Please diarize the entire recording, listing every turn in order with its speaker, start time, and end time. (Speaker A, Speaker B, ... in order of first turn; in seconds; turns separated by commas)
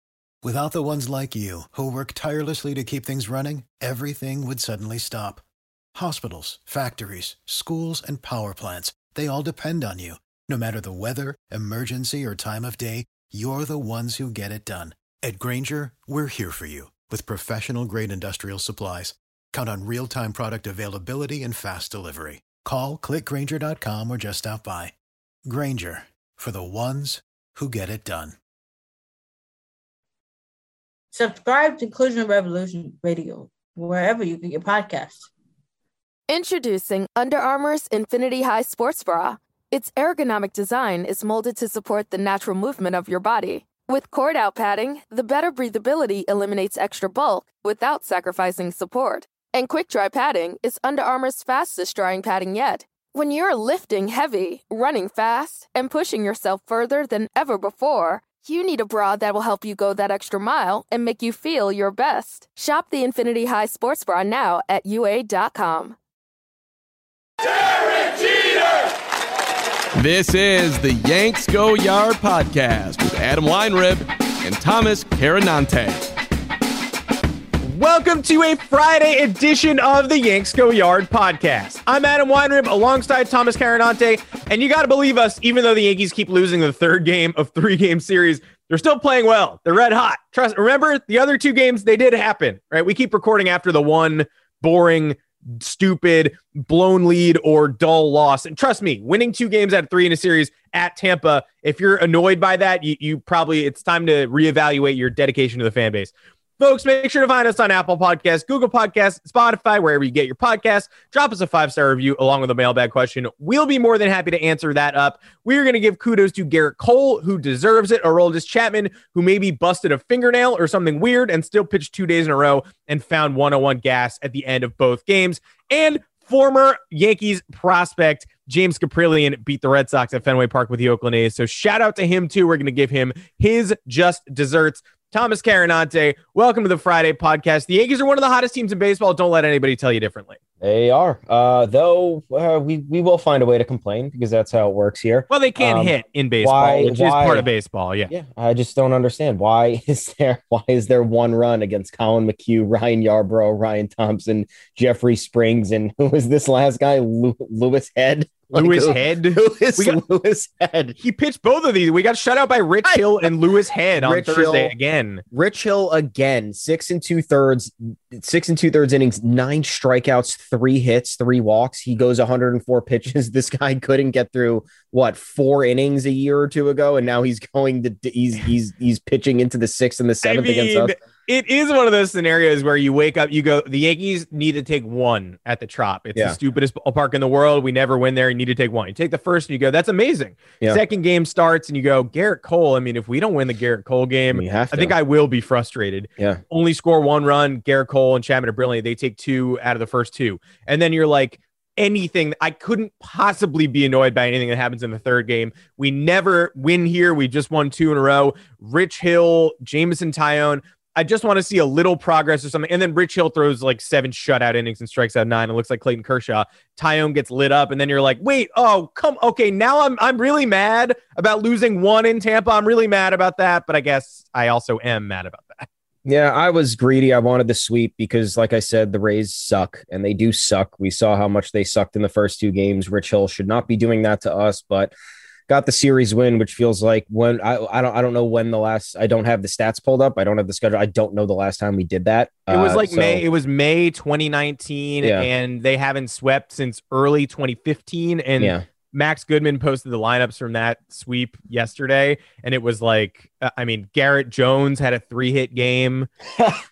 Speaker A: 0.4-24.9, Speaker A: 25.4-28.4, Speaker B: 31.1-35.3, Speaker C: 36.3-66.0, Speaker D: 70.0-76.0, Speaker E: 77.6-140.4, Speaker F: 140.6-147.5, Speaker E: 145.3-148.1, Speaker F: 148.1-161.0, Speaker E: 158.5-160.0, Speaker E: 161.0-165.2, Speaker F: 164.0-164.7, Speaker F: 165.3-181.0, Speaker E: 180.2-225.6, Speaker F: 194.3-194.9, Speaker F: 226.1-234.9, Speaker F: 235.5-243.2, Speaker E: 242.5-256.1, Speaker F: 245.0-245.3, Speaker F: 248.4-248.6